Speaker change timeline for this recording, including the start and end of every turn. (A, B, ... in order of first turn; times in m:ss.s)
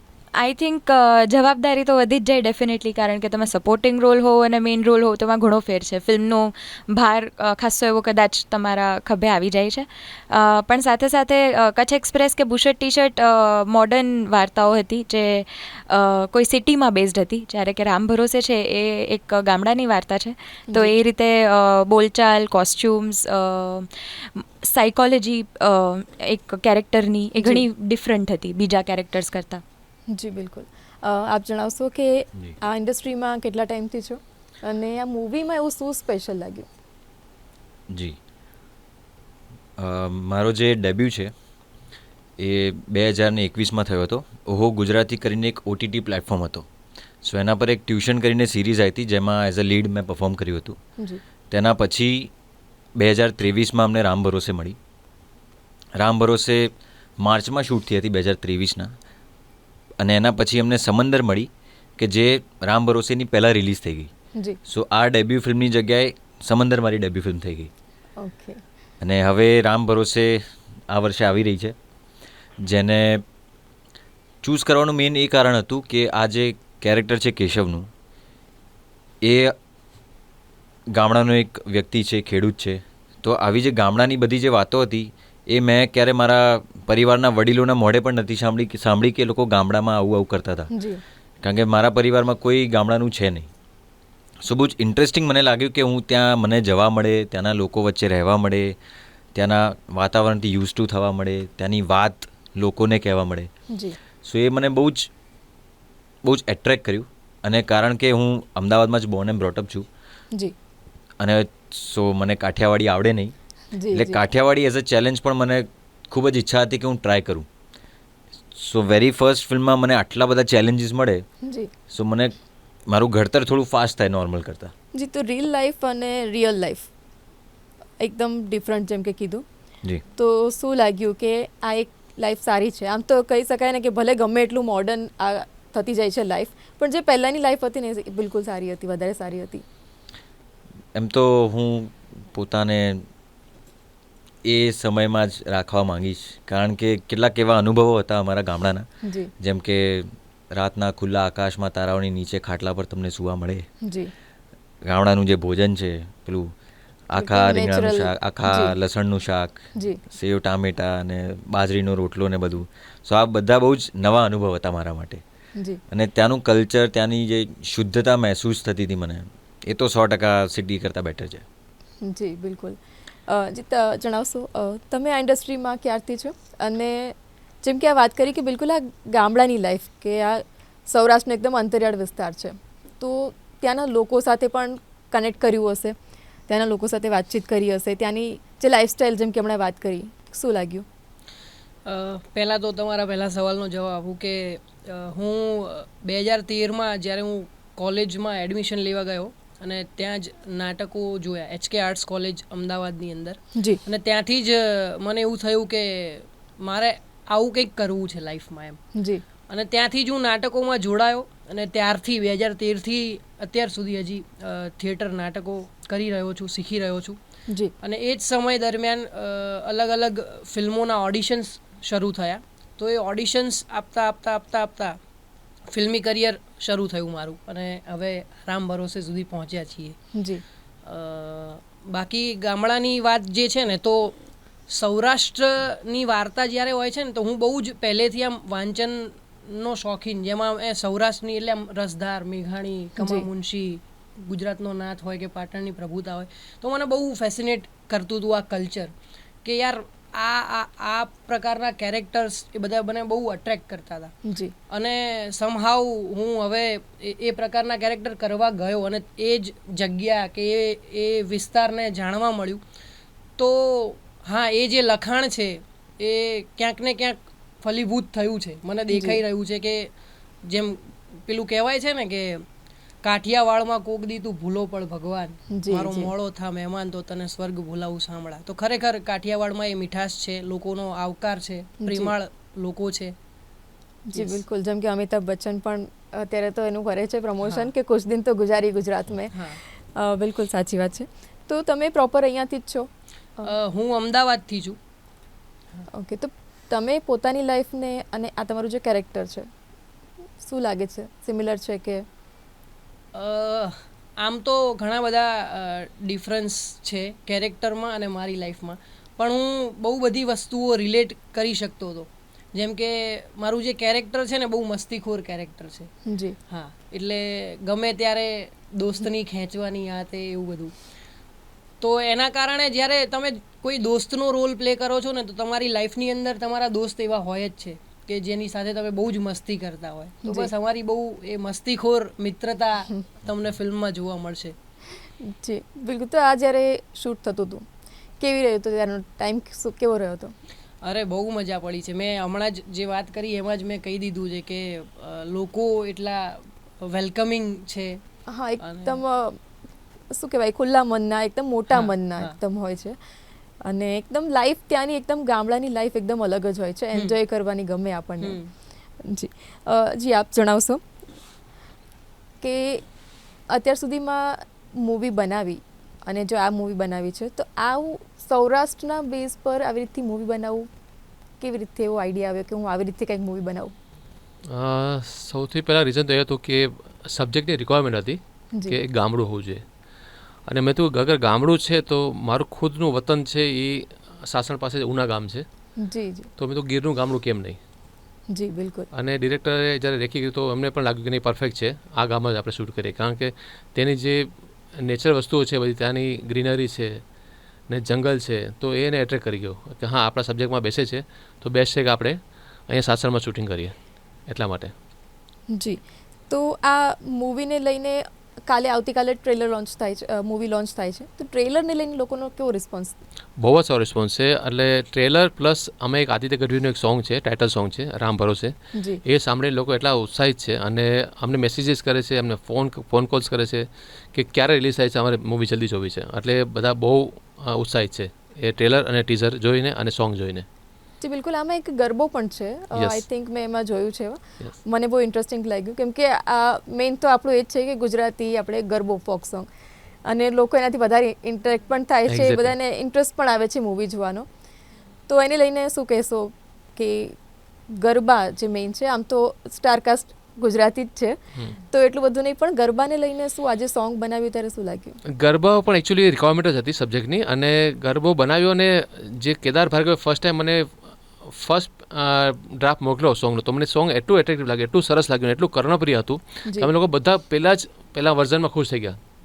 0:00.3-0:29.6 A
0:20.7-0:21.0 B
0:30.1-0:36.7 B
0:39.8-0:41.3 C
0:42.4-0:46.7 C
0:47.2-0:50.8 C
0:51.5-0:52.3 C
0:53.0-0:54.8 C
0:56.0-0:58.9 C
1:00.0-1:04.1 C
1:04.7-1:07.7 C
1:08.2-1:08.6 B
1:09.0-1:11.8 C
1:12.6-1:13.2 C
1:14.4-1:17.9 C
1:19.2-1:19.6 C
1:21.0-1:30.7 C
1:30.7-1:31.0 B
1:31.4-1:33.5 C
1:34.4-1:38.8 C
1:39.4-1:43.5 C
1:43.7-1:44.0 B
1:44.3-1:45.1 C
1:46.2-1:49.9 C
1:51.2-1:53.3 C
1:53.7-1:54.2 B
1:53.9-1:57.5 C
1:58.5-2:01.2 C
2:01.4-2:01.7 B
2:01.9-2:02.4 C
2:02.9-2:04.7 C
2:05.0-2:06.9 B
2:08.0-2:09.4 B
2:10.2-2:19.6 B
2:21.0-2:23.1 C
2:24.5-2:28.9 C
2:29.0-2:29.3 B
2:29.4-2:33.7 C
2:33.8-2:34.1 B
2:34.9-2:36.5 C
2:37.1-2:39.6 C
2:37.1-2:38.8 B
2:39.8-2:40.0 B
2:40.1-2:45.2 C
2:45.9-2:51.4 C
2:52.0-2:52.8 B
2:53.3-3:06.0 B
3:06.5-3:10.9 B
3:11.9-3:28.8 D
3:29.0-3:29.2 B
3:29.5-3:37.2 D
3:37.8-3:45.0 D
3:45.7-3:50.0 D
3:50.2-3:50.4 B
3:50.9-3:54.2 D
3:54.7-4:08.9 D
4:03.0-4:03.3 B
4:09.4-4:14.1 D
4:14.3-4:14.5 B
4:14.7-4:22.6 D
4:23.4-4:29.8 D
4:28.9-4:29.2 B
4:30.5-4:32.4 D
4:33.0-4:43.1 D
4:35.5-4:36.1 B
4:41.8-4:42.2 B
4:44.1-4:49.3 B
4:44.1-4:44.4 D
4:47.4-4:47.7 D
4:49.3-4:49.6 D
4:50.0-4:52.9 B
4:53.4-4:54.8 D
4:55.9-4:59.5 B
5:00.4-5:02.1 B
5:03.1-5:15.9 D
5:16.1-5:16.4 B
5:16.5-5:20.7 D
5:21.8-5:34.6 D
5:30.2-5:30.5 B
5:35.2-5:37.6 B
5:38.2-5:40.3 B
5:40.8-5:48.0 D
5:48.3-5:49.4 B
5:48.6-5:49.0 D
5:50.1-5:53.0 B
5:51.7-5:52.4 D
5:53.6-5:58.4 B
5:58.2-5:58.5 D
5:59.0-6:00.8 B
6:02.4-6:02.8 B
6:03.5-6:10.7 B
6:11.4-6:13.7 B
6:14.5-6:19.6 E
6:20.5-6:25.5 E
6:25.8-6:26.3 B
6:26.4-6:27.6 E
6:28.3-6:28.9 B
6:28.9-6:37.0 E
6:37.7-6:43.7 E
6:44.3-6:44.7 E
6:45.5-6:53.0 B
6:53.4-6:58.5 E
6:58.8-6:59.0 B
6:59.0-7:10.5 E
7:11.0-7:19.5 B
7:12.8-7:13.0 E
7:20.1-7:24.3 B
7:22.1-7:22.5 E
7:25.1-7:27.2 B
7:27.8-7:35.0 B
7:35.2-7:49.0 E
7:46.5-7:46.7 B